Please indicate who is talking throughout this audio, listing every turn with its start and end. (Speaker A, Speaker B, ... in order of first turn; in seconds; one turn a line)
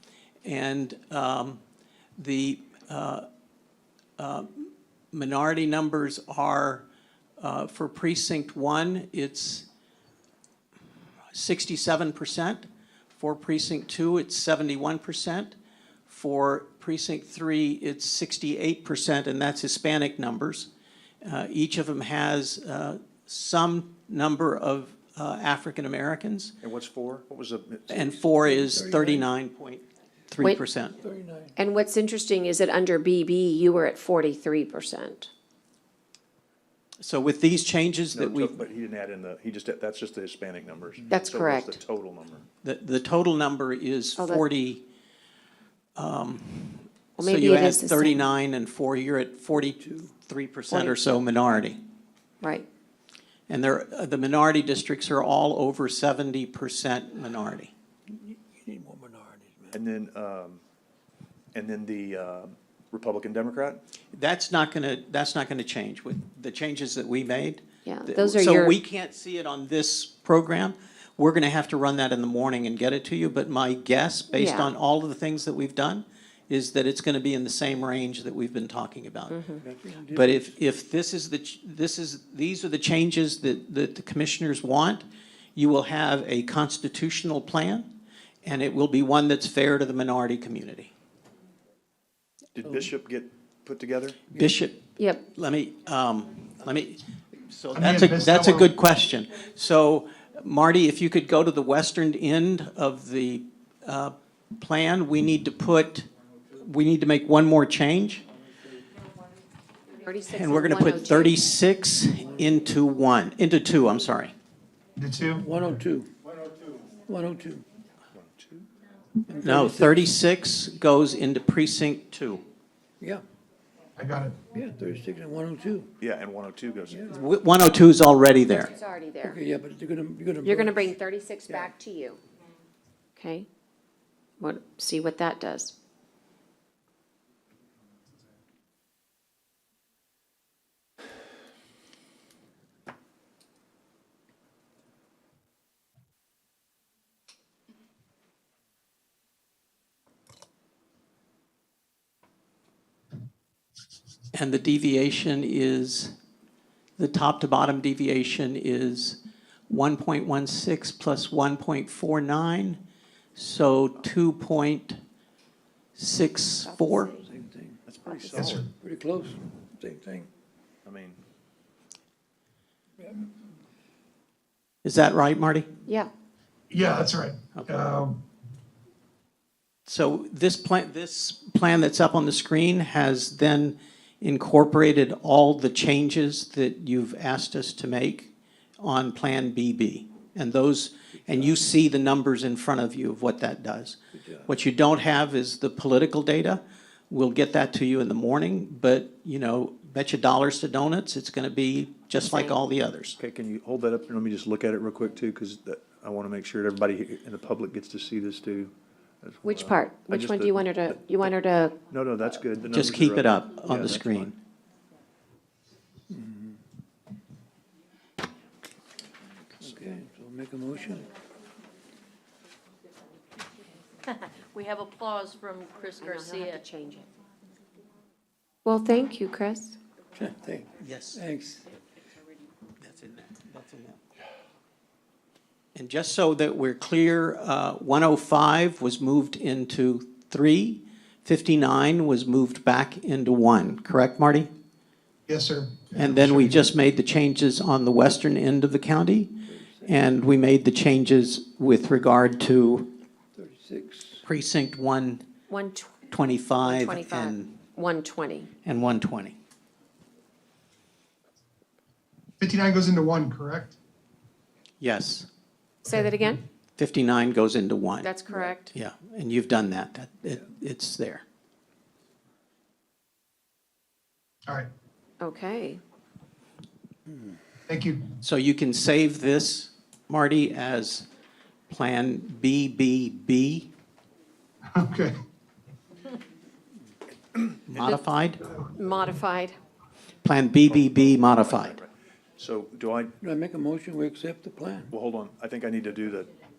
Speaker A: 0.4-1.6
Speaker A: 2.2-3.2
Speaker A: 4.2-6.8
Speaker A: 7.4-9.7
Speaker A: 11.3-15.5
Speaker A: 16.1-20.7
Speaker A: 21.2-26.5
Speaker B: 26.6-27.5
Speaker C: 26.6-28.2
Speaker A: 27.9-31.0
Speaker D: 28.4-29.3
Speaker D: 31.0-31.5
Speaker E: 31.6-35.3
Speaker A: 37.0-38.6
Speaker C: 38.1-42.5
Speaker E: 41.1-41.8
Speaker B: 41.1-41.4
Speaker A: 42.6-44.8
Speaker E: 44.2-44.5
Speaker A: 46.0-51.8
Speaker E: 47.2-48.2
Speaker D: 49.7-50.1
Speaker E: 52.4-52.7
Speaker A: 53.5-57.7
Speaker D: 58.1-59.8
Speaker C: 59.7-60.6
Speaker C: 61.5-63.8
Speaker A: 64.1-79.5
Speaker E: 67.8-68.8
Speaker E: 74.3-74.7
Speaker E: 79.3-79.6
Speaker D: 79.6-80.6
Speaker A: 80.1-85.0
Speaker A: 85.5-87.9
Speaker A: 88.4-90.9
Speaker C: 92.5-94.2
Speaker D: 94.2-94.6
Speaker A: 94.3-108.2
Speaker E: 95.0-95.2
Speaker B: 97.7-98.7
Speaker E: 110.0-111.4
Speaker A: 110.3-114.3
Speaker B: 115.0-115.5
Speaker D: 115.3-116.1
Speaker D: 116.9-117.7
Speaker C: 118.1-118.7
Speaker A: 119.3-122.4
Speaker D: 119.4-120.1
Speaker B: 124.0-124.4
Speaker D: 124.5-125.9
Speaker C: 126.0-127.0
Speaker D: 126.9-127.2
Speaker A: 127.1-128.7
Speaker E: 128.7-129.4
Speaker D: 129.2-130.9
Speaker E: 130.4-132.2
Speaker E: 133.2-133.5
Speaker E: 134.4-135.7
Speaker A: 154.3-156.1
Speaker A: 157.0-159.2
Speaker A: 159.7-162.8
Speaker A: 163.3-165.0
Speaker A: 165.9-167.1
Speaker E: 166.6-167.2
Speaker D: 167.2-170.3
Speaker C: 167.8-168.7
Speaker B: 168.3-168.7
Speaker C: 170.8-171.2
Speaker D: 173.0-173.3
Speaker A: 174.8-175.7
Speaker B: 176.7-178.2
Speaker A: 177.5-178.0
Speaker A: 179.8-203.2
Speaker D: 191.2-191.7
Speaker D: 194.2-194.5
Speaker C: 203.2-210.6
Speaker E: 209.4-211.8
Speaker C: 211.9-214.3
Speaker A: 212.7-214.4
Speaker D: 216.1-216.6
Speaker D: 219.6-221.1
Speaker F: 224.4-226.6
Speaker E: 226.0-227.1
Speaker E: 228.6-229.8
Speaker D: 230.1-231.7
Speaker A: 230.8-231.2
Speaker A: 232.8-234.0
Speaker A: 235.8-244.5
Speaker B: 245.3-246.6
Speaker A: 245.9-249.3
Speaker D: 249.5-250.0
Speaker A: 249.8-252.9
Speaker D: 253.3-254.2
Speaker A: 254.2-255.2
Speaker E: 255.5-256.0
Speaker A: 256.1-257.6
Speaker E: 256.6-258.5
Speaker A: 258.6-259.4
Speaker B: 262.4-263.8
Speaker A: 264.8-265.3
Speaker E: 265.8-266.4
Speaker A: 266.8-268.1
Speaker E: 268.0-268.7
Speaker A: 268.7-271.2
Speaker E: 275.2-275.8
Speaker B: 277.7-278.0
Speaker A: 278.2-281.1
Speaker A: 281.7-283.7
Speaker B: 284.8-285.1
Speaker A: 287.7-288.4
Speaker E: 287.8-288.0
Speaker B: 288.4-288.7
Speaker E: 288.7-289.6
Speaker A: 290.2-291.8
Speaker C: 290.7-291.9
Speaker B: 292.4-292.6
Speaker C: 292.4-293.1
Speaker D: 293.2-294.9
Speaker C: 294.9-296.3